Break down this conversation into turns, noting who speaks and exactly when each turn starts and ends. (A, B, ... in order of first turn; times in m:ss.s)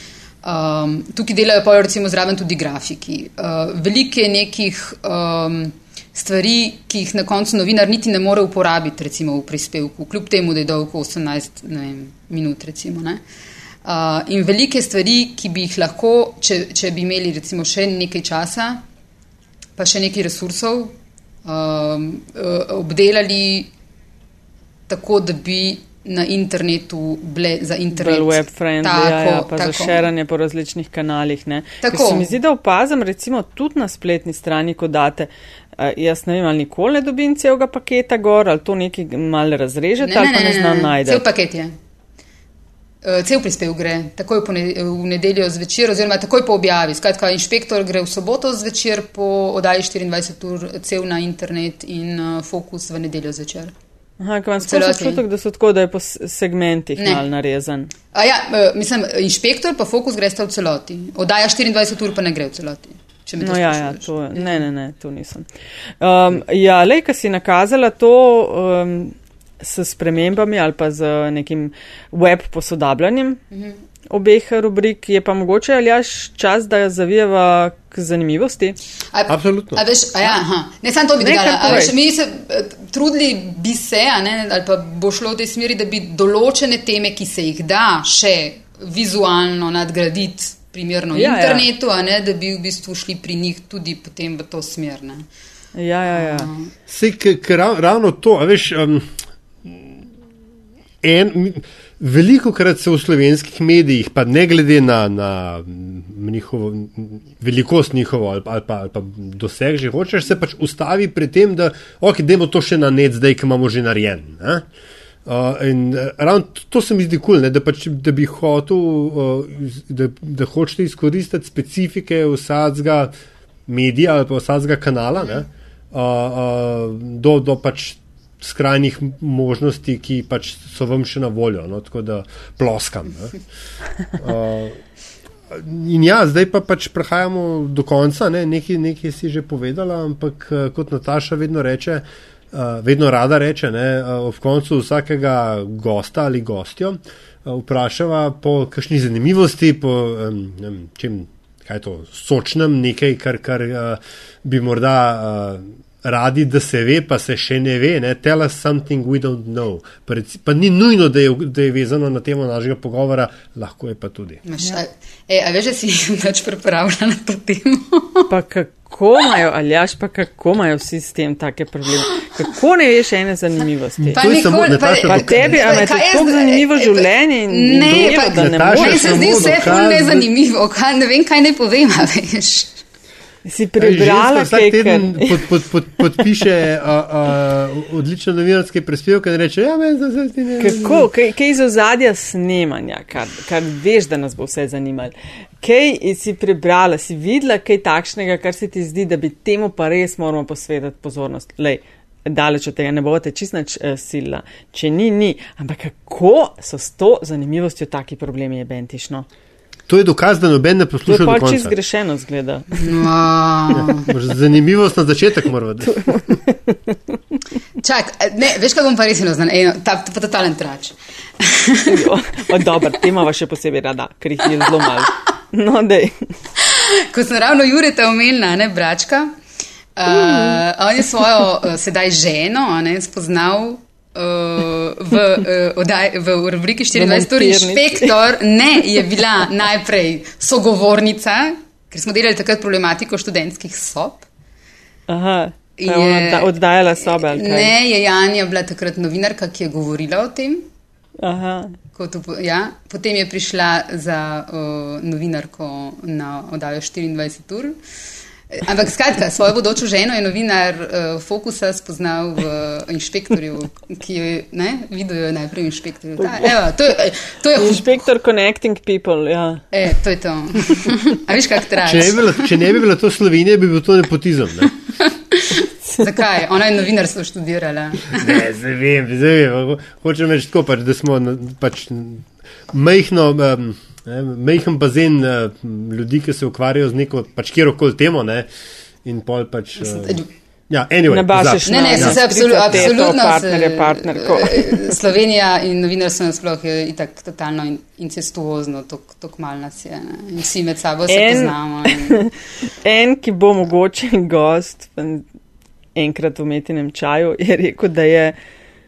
0:00.4-0:13.2 A
0:13.8-0:18.8 A
0:19.8-0:23.7 A
0:24.9-0:30.1 A
0:27.9-0:41.2 B
0:31.8-0:32.3 A
0:40.0-0:41.7 A
0:43.0-0:53.7 A
0:54.2-0:57.9 B
0:54.6-0:55.2 A
0:57.0-0:57.2 A
0:58.1-1:04.6 A
1:03.4-1:05.5 B
1:06.0-1:13.4 B
1:13.5-1:13.8 A
1:14.1-1:18.8 B
1:19.1-1:35.3 A
1:19.3-1:19.8 C
1:21.2-1:21.9 B
1:31.1-1:31.6 B
1:35.7-1:36.5 B
1:36.1-1:36.7 A
1:36.9-1:40.0 C
1:41.0-1:54.7 C
1:55.2-2:03.1 C
2:03.7-2:13.4 C
2:14.1-2:14.8 C
2:15.5-2:44.4 C
2:44.4-2:48.3 A
2:48.3-2:54.2 B
2:54.0-2:55.6 C
2:54.2-3:02.8 A
2:55.0-2:59.6 B
2:57.9-3:00.3 C
3:03.4-3:05.5 B
3:03.8-3:11.0 C
3:10.6-3:29.3 B
3:29.9-3:31.7 C
3:31.0-3:32.7 B
3:32.7-3:34.1 A
3:33.7-3:36.0 C
3:35.8-3:37.2 B
3:37.8-3:42.1 A
3:41.9-3:46.3 B
3:46.6-3:49.3 A
3:50.0-4:04.3 A
3:50.1-3:50.6 B
3:57.0-3:58.1 B
4:05.1-4:07.7 B
4:05.8-4:10.7 A
4:11.2-4:11.8 B
4:12.0-4:17.8 A
4:18.5-4:28.0 A
4:26.2-4:26.5 B
4:27.6-4:29.7 B
4:29.7-4:32.6 A
4:31.8-4:34.7 C
4:35.0-4:38.4 A
4:38.1-4:48.5 C
4:49.0-4:52.2 C
4:49.8-4:50.3 A
4:51.1-4:55.0 B
4:51.7-5:02.3 A
5:01.1-5:05.2 B
5:06.0-5:08.4 B